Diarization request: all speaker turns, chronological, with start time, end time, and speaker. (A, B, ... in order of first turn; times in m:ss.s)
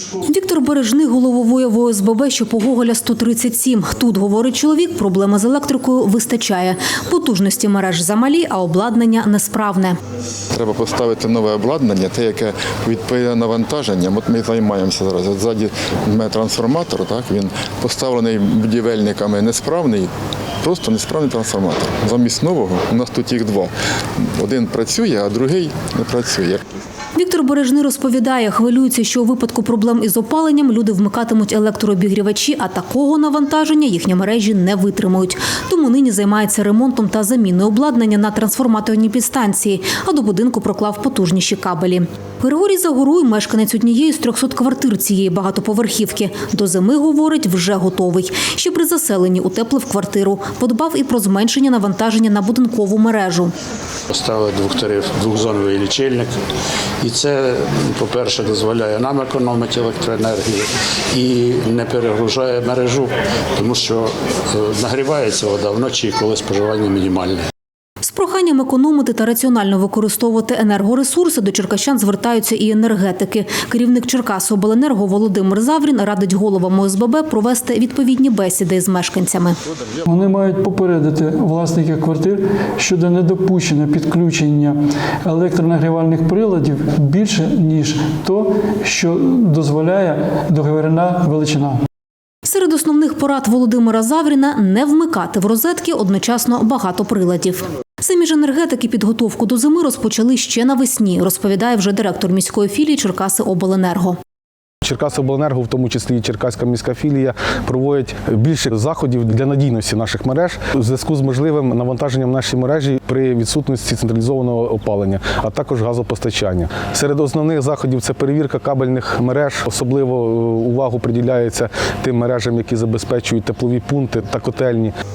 0:00.2-0:10.0 A
0:10.5-0:20.1 B
0:20.6-0:23.7 B
0:24.3-0:26.6 B
0:27.1-0:53.5 A
0:54.1-0:56.3 C
0:57.0-1:07.4 C
1:08.0-1:19.6 A
1:20.0-1:31.8 D
1:32.4-1:44.2 A
1:44.8-2:04.9 E